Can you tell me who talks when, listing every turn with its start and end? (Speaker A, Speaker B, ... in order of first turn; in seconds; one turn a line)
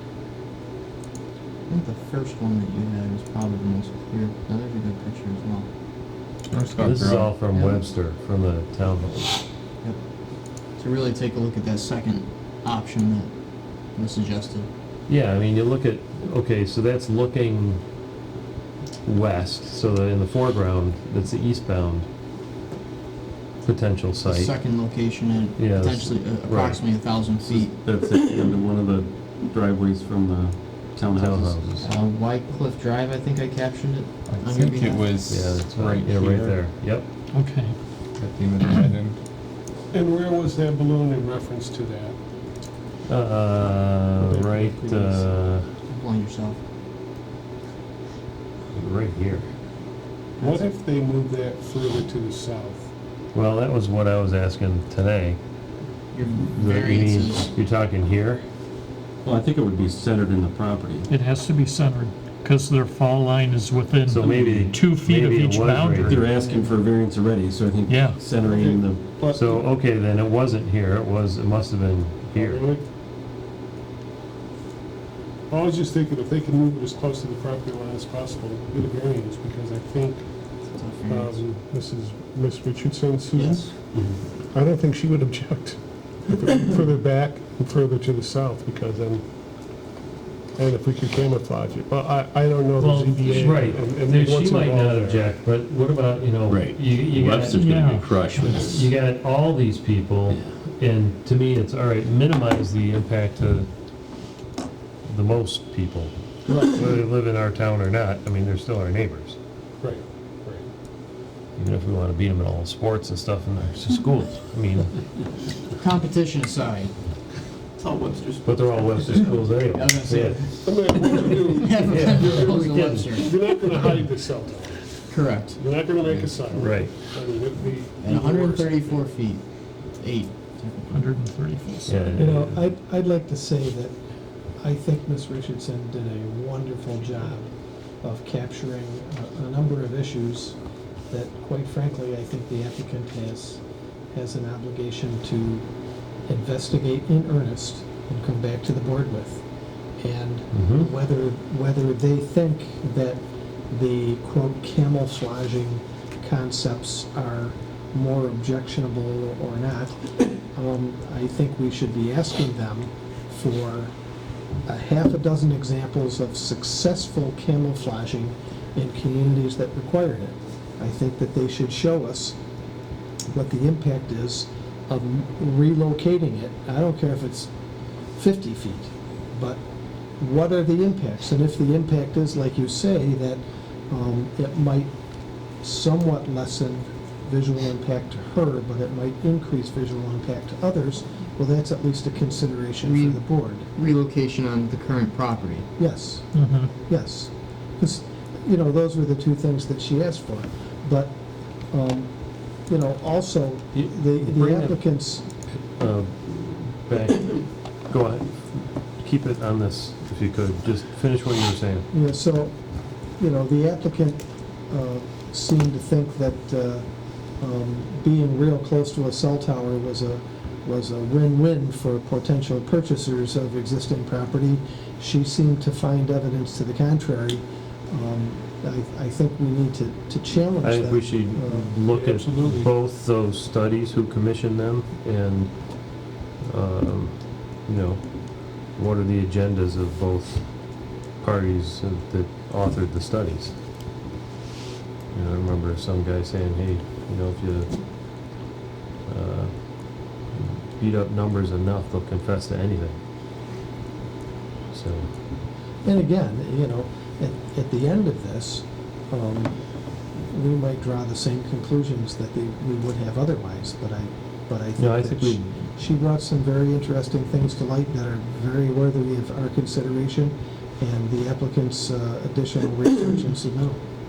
Speaker A: 1.7-5.7
Speaker B: 6.5-7.3
Speaker C: 6.8-9.4
Speaker A: 7.5-7.8
Speaker A: 10.8-13.3
Speaker A: 13.9-14.7
Speaker C: 15.1-17.8
Speaker C: 19.1-22.1
Speaker C: 23.6-24.6
Speaker A: 24.2-28.2
Speaker C: 25.6-26.8
Speaker D: 27.4-31.8
Speaker C: 31.1-31.9
Speaker A: 31.8-35.2
Speaker B: 34.4-36.7
Speaker C: 35.3-37.1
Speaker E: 37.3-37.8
Speaker B: 38.2-39.2
Speaker F: 39.9-42.2
Speaker C: 43.1-45.7
Speaker F: 44.2-45.3
Speaker A: 45.9-46.6
Speaker C: 48.7-49.5
Speaker A: 50.4-50.7
Speaker F: 50.4-52.9
Speaker C: 53.3-55.4
Speaker A: 56.1-57.5
Speaker C: 56.5-58.5
Speaker D: 59.2-61.1
Speaker E: 61.1-66.2
Speaker C: 64.1-66.2
Speaker D: 64.3-64.7
Speaker D: 66.1-69.1
Speaker A: 66.4-66.7
Speaker E: 67.9-68.3
Speaker F: 68.4-69.7
Speaker C: 69.2-72.7
Speaker F: 72.3-72.8
Speaker F: 75.5-80.3
Speaker A: 80.7-81.4
Speaker F: 81.1-83.9
Speaker A: 83.3-83.7
Speaker F: 84.5-89.2
Speaker F: 90.6-95.3
Speaker E: 92.8-93.6
Speaker C: 93.3-103.7
Speaker D: 96.5-98.9
Speaker E: 97.5-98.7
Speaker C: 105.1-109.4
Speaker F: 106.5-107.0
Speaker F: 109.8-110.7
Speaker C: 111.6-115.0
Speaker A: 115.8-117.0
Speaker C: 118.4-120.4
Speaker A: 119.7-123.3
Speaker F: 120.6-129.1
Speaker C: 121.8-123.1
Speaker A: 125.1-125.6
Speaker C: 126.5-126.9
Speaker A: 128.0-131.1
Speaker E: 130.9-132.0
Speaker C: 131.9-132.7
Speaker G: 132.2-134.0
Speaker G: 134.6-140.6
Speaker G: 141.1-143.6
Speaker G: 144.1-145.7
Speaker G: 146.3-149.4
Speaker G: 150.0-163.9
Speaker C: 150.5-150.9
Speaker G: 164.7-172.4
Speaker G: 173.3-177.5
Speaker G: 178.2-179.6
Speaker G: 180.2-184.9
Speaker G: 185.6-193.7
Speaker A: 192.8-195.7
Speaker G: 195.8-201.2
Speaker E: 196.3-196.7
Speaker G: 201.7-202.1
Speaker G: 202.7-205.3
Speaker C: 203.8-204.8
Speaker C: 205.8-211.9
Speaker G: 211.9-212.6
Speaker G: 213.2-216.8
Speaker G: 217.4-231.7
Speaker C: 230.6-243.6
Speaker F: 231.8-232.7
Speaker C: 245.1-248.4
Speaker C: 249.1-253.0
Speaker C: 254.7-255.1
Speaker G: 255.8-259.6
Speaker G: 260.1-273.8
Speaker C: 264.8-265.5